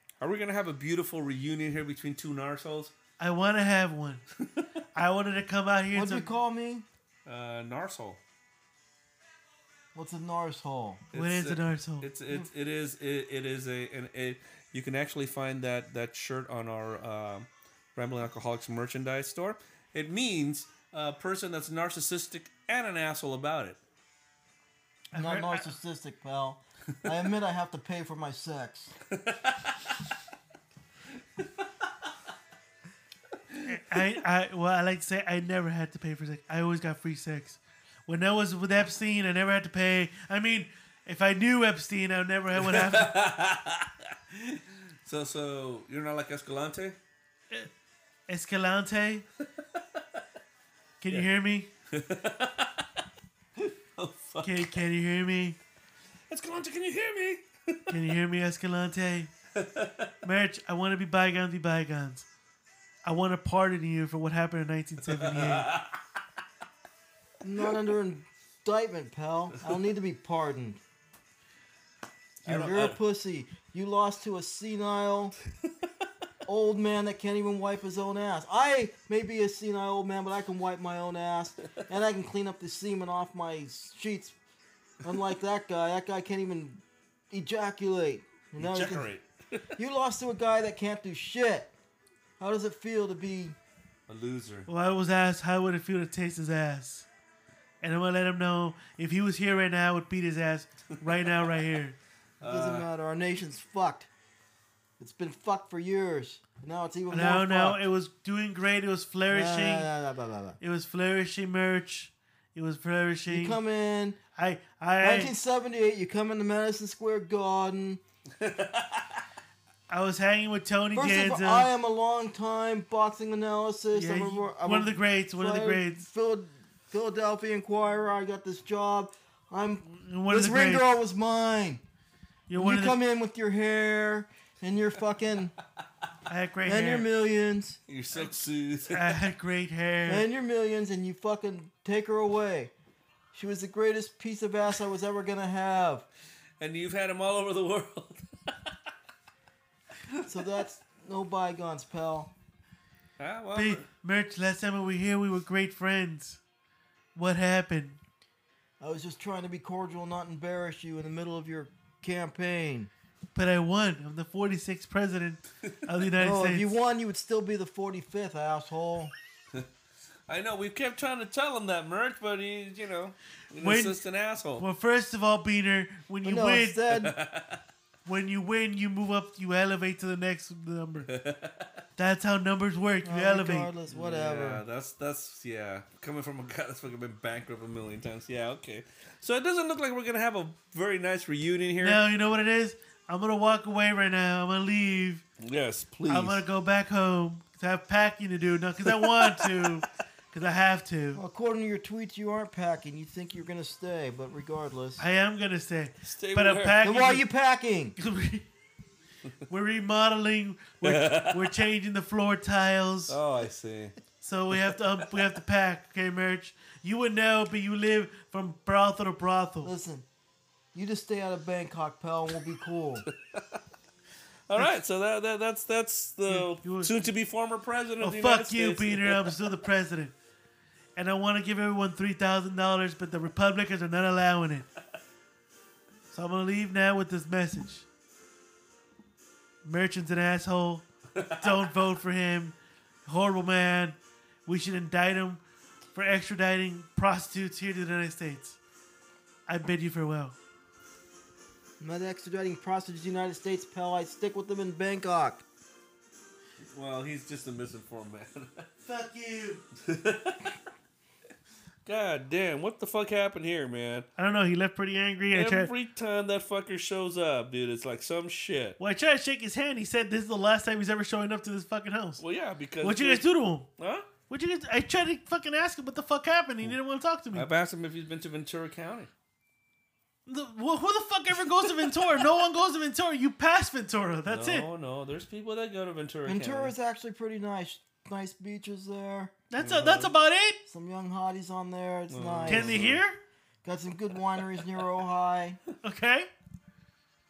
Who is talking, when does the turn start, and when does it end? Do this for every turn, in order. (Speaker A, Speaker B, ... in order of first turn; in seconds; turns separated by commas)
Speaker A: 0.2-2.9, Speaker B: 3.2-4.2, Speaker A: 4.4-4.7, Speaker B: 4.9-6.3, Speaker C: 5.9-6.8, Speaker A: 7.2-8.2, Speaker C: 9.9-11.0, Speaker A: 11.1-23.8, Speaker B: 11.1-12.1, Speaker B: 25.1-25.7, Speaker C: 25.1-28.9, Speaker A: 29.1-29.8, Speaker A: 33.5-34.0, Speaker B: 33.6-43.1, Speaker A: 42.6-47.0, Speaker B: 48.3-49.2, Speaker B: 51.0-51.7, Speaker A: 51.9-52.9, Speaker A: 53.6-54.8, Speaker B: 54.4-55.6, Speaker A: 56.3-57.9, Speaker B: 57.9-59.3, Speaker A: 59.5-60.1, Speaker B: 60.2-62.2, Speaker B: 63.0-65.7, Speaker A: 65.1-66.0, Speaker C: 67.4-70.8, Speaker A: 72.4-73.0, Speaker C: 72.4-75.3, Speaker C: 76.5-84.3, Speaker C: 85.0-89.1, Speaker A: 88.6-89.7, Speaker C: 89.8-91.7, Speaker C: 92.4-93.6, Speaker A: 94.1-94.7, Speaker B: 94.7-97.1, Speaker B: 97.8-102.0, Speaker A: 102.4-102.8, Speaker C: 102.4-104.1, Speaker C: 105.0-107.8, Speaker B: 107.1-109.9, Speaker C: 109.3-110.6, Speaker B: 110.6-113.6, Speaker C: 113.3-114.2, Speaker B: 114.3-115.3, Speaker C: 115.0-118.0, Speaker A: 118.4-119.2, Speaker B: 119.9-121.7, Speaker C: 120.9-131.8, Speaker B: 123.9-126.0, Speaker B: 129.9-130.9, Speaker B: 132.5-133.0, Speaker C: 132.6-135.5, Speaker B: 136.3-137.1, Speaker C: 136.6-137.8, Speaker A: 137.9-139.2, Speaker B: 138.1-140.2, Speaker C: 140.1-142.7, Speaker C: 143.3-146.0, Speaker A: 146.6-148.7, Speaker C: 150.2-152.3, Speaker A: 153.2-153.9, Speaker B: 153.5-156.4, Speaker B: 157.1-158.0, Speaker C: 158.8-162.9, Speaker B: 163.3-166.7, Speaker C: 166.2-169.1, Speaker A: 170.3-174.6, Speaker B: 173.6-174.0, Speaker B: 174.6-176.8, Speaker C: 176.2-177.1, Speaker A: 176.9-177.6, Speaker B: 178.0-181.1, Speaker A: 181.1-181.8, Speaker B: 182.0-183.7, Speaker C: 183.0-184.6, Speaker A: 183.9-192.0, Speaker B: 191.8-195.2, Speaker A: 195.4-196.4, Speaker B: 196.1-201.2, Speaker A: 198.8-199.7, Speaker C: 201.1-205.0, Speaker B: 205.0-207.2, Speaker A: 206.0-206.9, Speaker C: 206.8-207.9, Speaker B: 208.0-208.5, Speaker B: 209.5-213.2, Speaker A: 210.8-211.6, Speaker A: 213.1-213.9, Speaker B: 214.2-219.7, Speaker C: 219.6-220.1, Speaker C: 220.7-223.1, Speaker A: 223.1-223.6, Speaker A: 224.5-229.5, Speaker B: 226.3-226.9, Speaker B: 228.0-230.1, Speaker B: 230.9-234.7, Speaker B: 236.1-237.8, Speaker B: 239.6-245.4, Speaker A: 241.2-241.5, Speaker B: 245.9-248.6, Speaker B: 249.5-250.3, Speaker C: 251.8-255.4, Speaker A: 256.6-258.7, Speaker B: 258.9-259.6, Speaker A: 259.8-260.5, Speaker A: 261.9-264.1, Speaker B: 264.2-265.7, Speaker A: 265.3-268.8, Speaker B: 268.8-272.2, Speaker A: 272.2-273.2, Speaker B: 272.8-273.7, Speaker A: 273.8-274.1, Speaker B: 274.3-277.5, Speaker A: 277.3-279.1, Speaker B: 280.3-284.7, Speaker A: 284.3-286.7, Speaker C: 286.2-289.4, Speaker B: 289.5-290.6, Speaker A: 289.6-290.1, Speaker C: 290.7-292.9, Speaker A: 292.1-293.0, Speaker B: 292.5-293.2, Speaker C: 293.6-295.6, Speaker B: 295.8-296.3